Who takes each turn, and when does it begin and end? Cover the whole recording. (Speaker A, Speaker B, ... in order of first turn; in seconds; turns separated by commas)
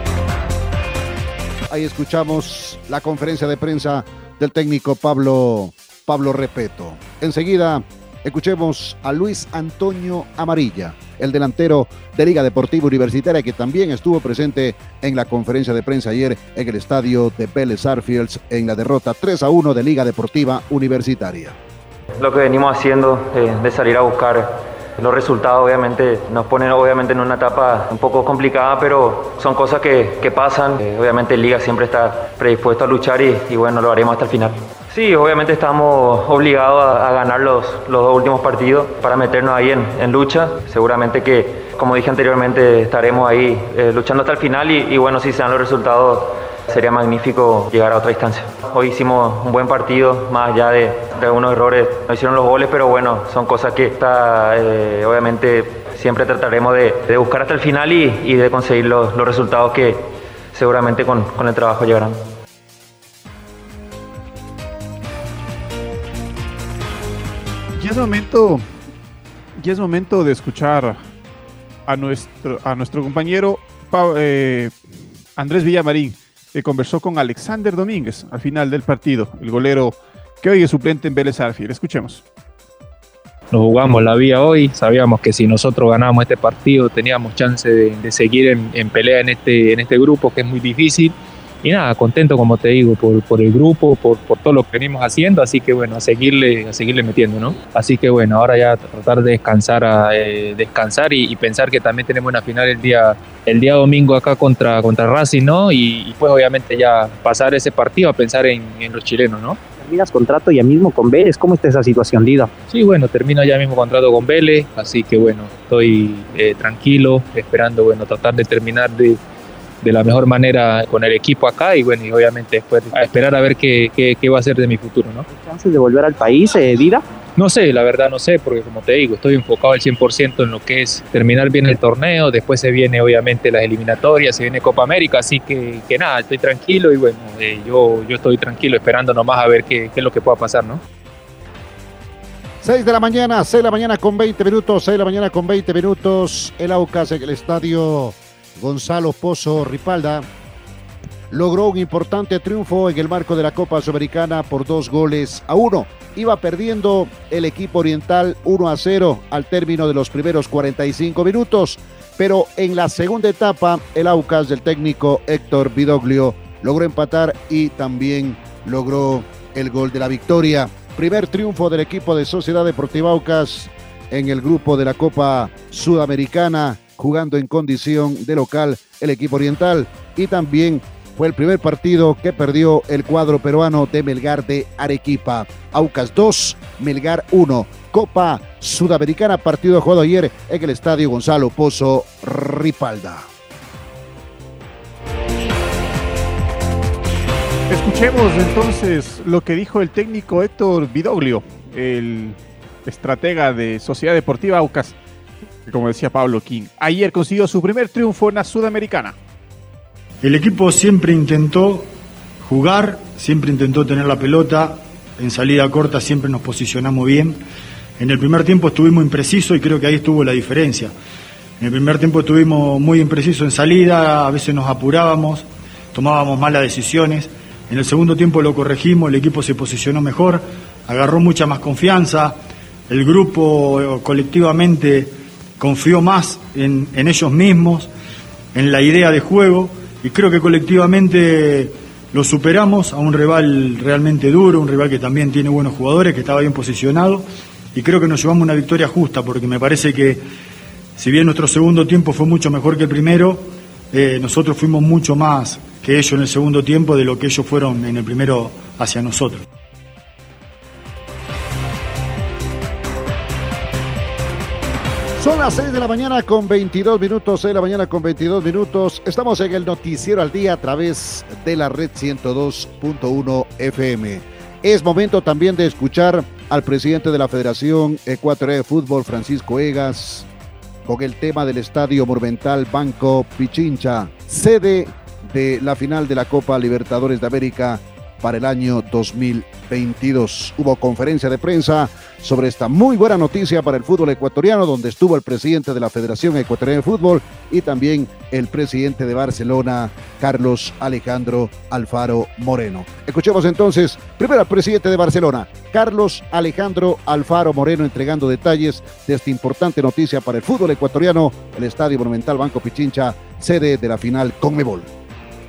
Speaker A: 1.7-21.6, Speaker B: 22.2-62.2, Speaker C: 67.8-68.7, Speaker C: 69.6-71.0, Speaker C: 71.8-74.7, Speaker C: 75.3-82.2, Speaker D: 83.5-109.6, Speaker E: 109.8-112.5, Speaker D: 112.7-119.2, Speaker D: 119.8-125.2, Speaker E: 125.3-127.0, Speaker D: 127.3-140.8, Speaker A: 142.6-150.3, Speaker A: 151.3-193.3, Speaker C: 197.7-204.9, Speaker C: 205.7-209.2, Speaker F: 210.2-217.4, Speaker F: 218.0-220.9, Speaker F: 221.6-237.9, Speaker F: 238.5-250.2, Speaker F: 250.9-259.4, Speaker A: 265.2-280.3, Speaker A: 280.9-314.9